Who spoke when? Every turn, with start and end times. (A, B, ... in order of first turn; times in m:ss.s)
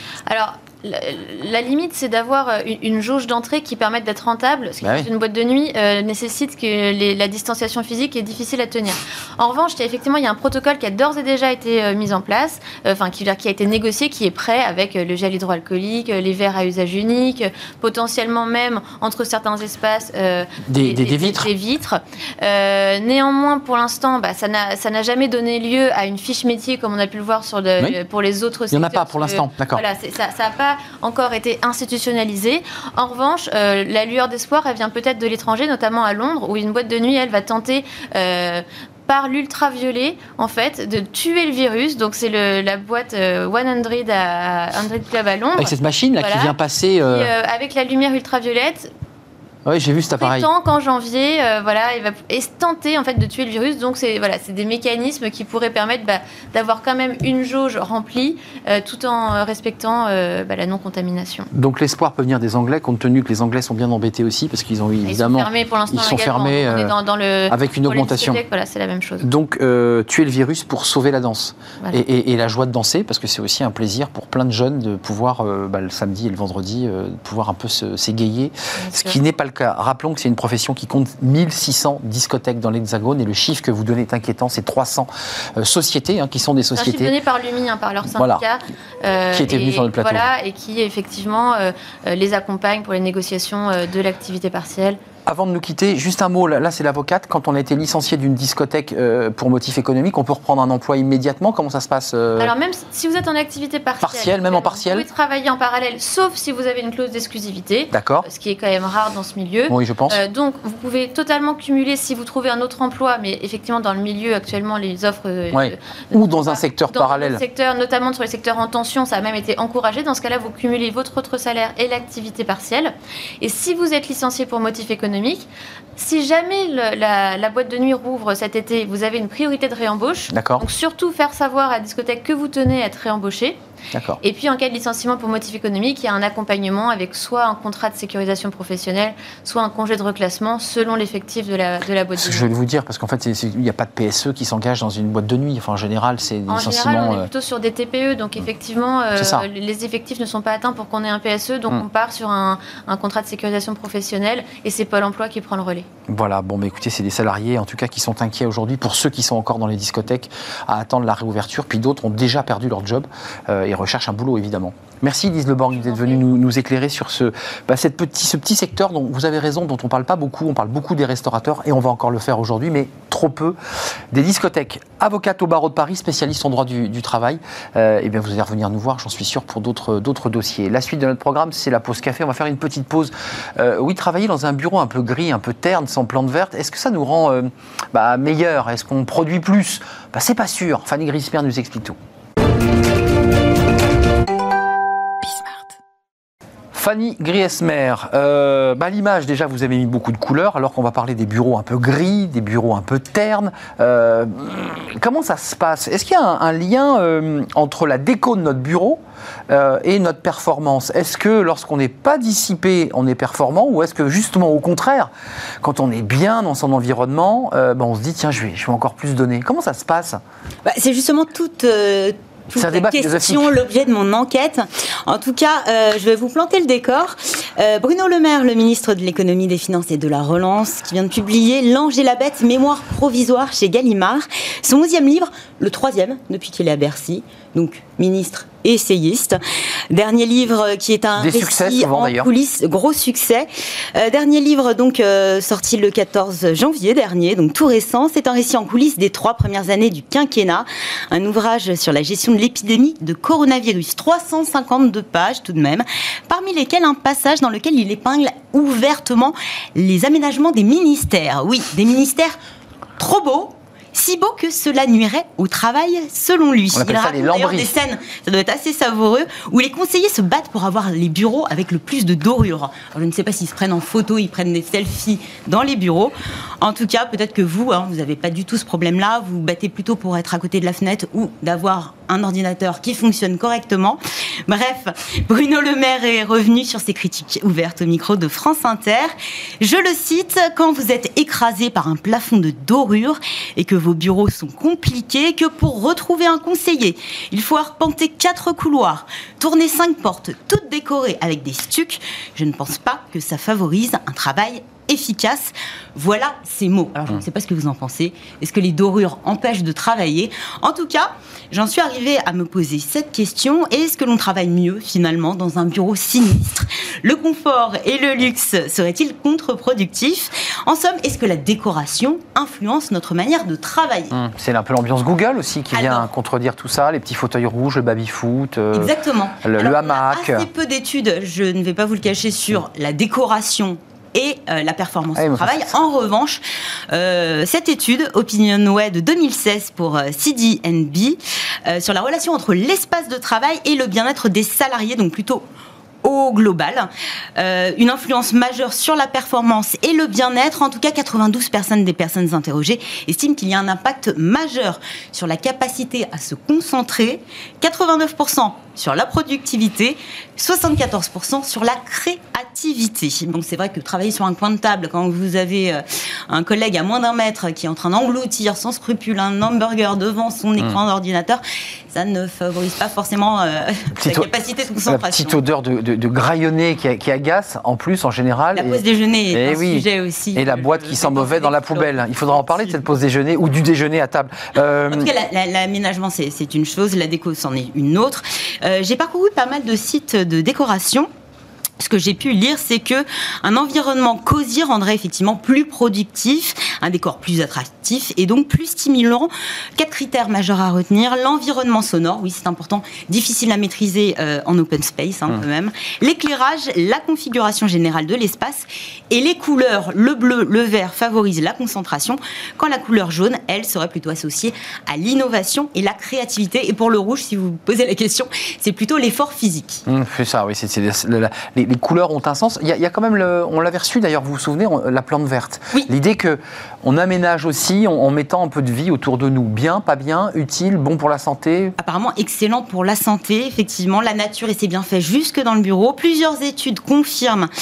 0:00.3-0:46.5 A
0:04.8-0:05.1 B
0:20.7-0:21.5 B
0:28.7-0:29.8 B
0:45.6-0:47.3 B
0:47.0-0:48.9 A
0:49.6-0:50.5 B
0:50.2-1:01.5 A
1:01.5-1:06.9 B
1:05.0-1:09.2 A
1:07.5-1:08.4 B
1:09.2-1:27.1 B
1:18.8-1:19.2 A
1:26.7-1:35.0 A
1:28.1-1:28.4 B
1:29.3-1:30.2 B
1:35.2-1:42.5 B
1:42.4-2:13.6 A
1:44.0-1:45.1 B
1:47.9-1:48.2 B
1:49.7-1:50.2 B
1:55.5-1:57.4 B
2:10.3-2:10.6 B
2:13.9-2:14.2 B
2:14.2-2:22.5 A
2:22.2-2:27.3 B
2:26.5-2:35.9 A
2:29.2-2:29.4 B
2:36.1-2:53.6 B
2:45.7-2:46.2 A
2:54.1-3:12.0 B
3:16.7-3:35.1 B
3:35.6-3:40.2 B
3:40.6-4:22.4 C
3:42.6-3:43.5 B
4:01.2-4:02.3 B
4:23.0-5:24.1 C
4:26.7-4:27.7 B
5:24.1-5:30.5 B
5:25.7-5:26.0 C
5:28.7-5:45.4 C
5:35.1-5:35.8 B
5:46.0-6:15.4 C
6:13.9-6:14.3 B
6:14.9-6:25.1 B
6:18.5-6:22.8 C
6:24.9-6:31.1 C
6:31.8-6:59.8 C
6:59.9-7:11.7 B
7:11.8-7:17.5 C